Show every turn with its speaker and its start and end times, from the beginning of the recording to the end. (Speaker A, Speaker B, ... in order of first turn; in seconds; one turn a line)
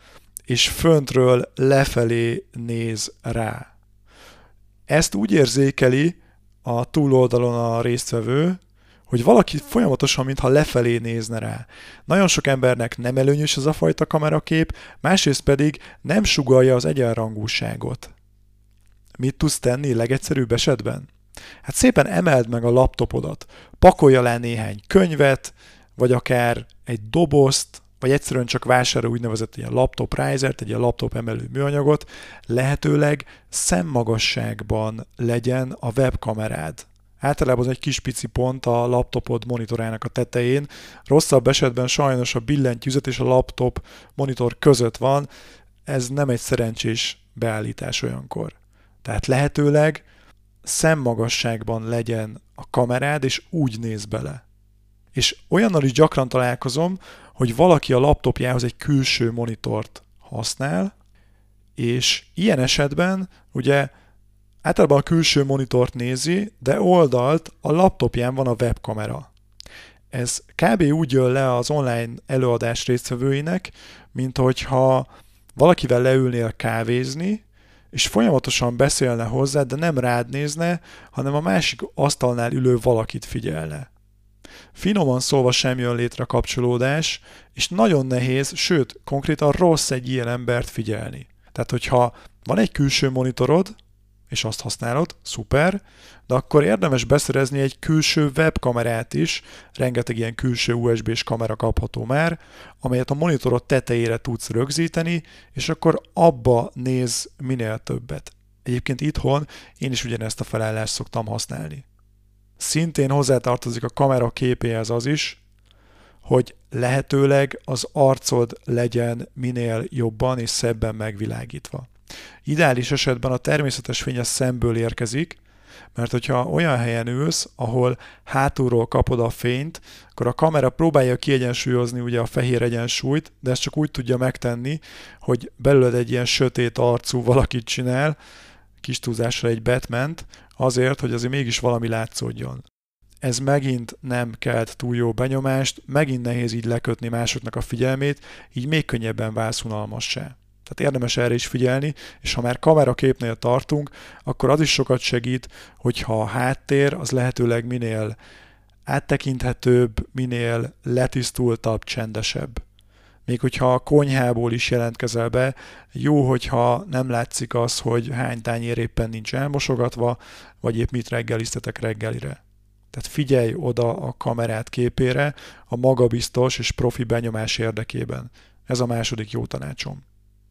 Speaker A: 0.5-3.7
Speaker A: 4.9-18.1
Speaker A: 19.2-21.1
Speaker A: 21.6-45.3
Speaker A: 45.9-50.0
Speaker A: 50.6-54.4
Speaker A: 55.1-60.9
Speaker A: 61.8-63.9
Speaker A: 64.6-69.3
Speaker A: 70.1-83.9
Speaker A: 84.8-93.8
Speaker A: 94.3-111.9
Speaker A: 112.6-115.4
Speaker A: 116.2-121.9
Speaker A: 122.5-125.4
Speaker A: 126.0-138.2
Speaker A: 138.8-142.7
Speaker A: 143.2-158.2
Speaker A: 158.9-162.6
Speaker A: 163.3-172.4
Speaker A: 172.9-180.0